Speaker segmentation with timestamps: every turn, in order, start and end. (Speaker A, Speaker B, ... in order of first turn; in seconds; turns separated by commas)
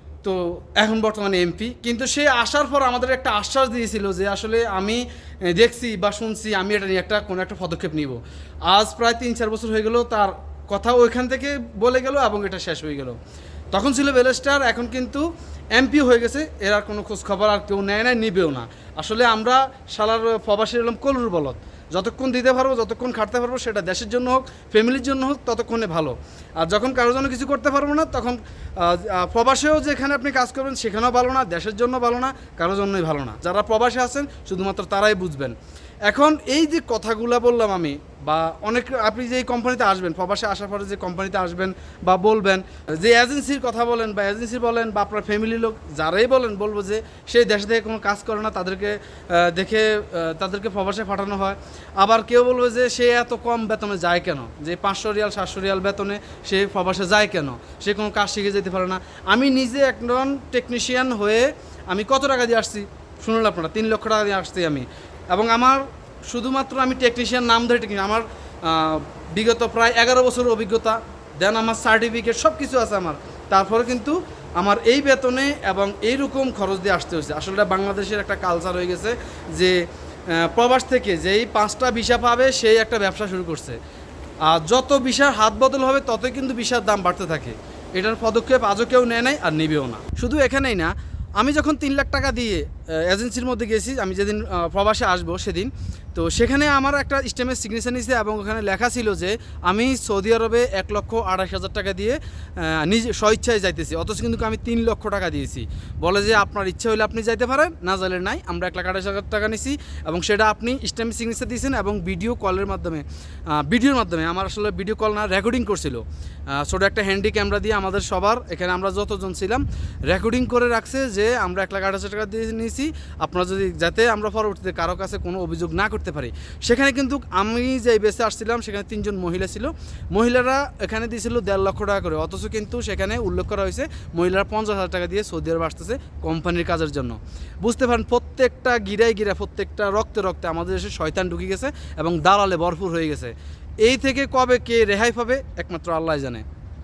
Speaker A: 0.2-13.2, Speaker A: 13.7-35.5, Speaker A: 36.1-83.8, Speaker A: 84.4-146.4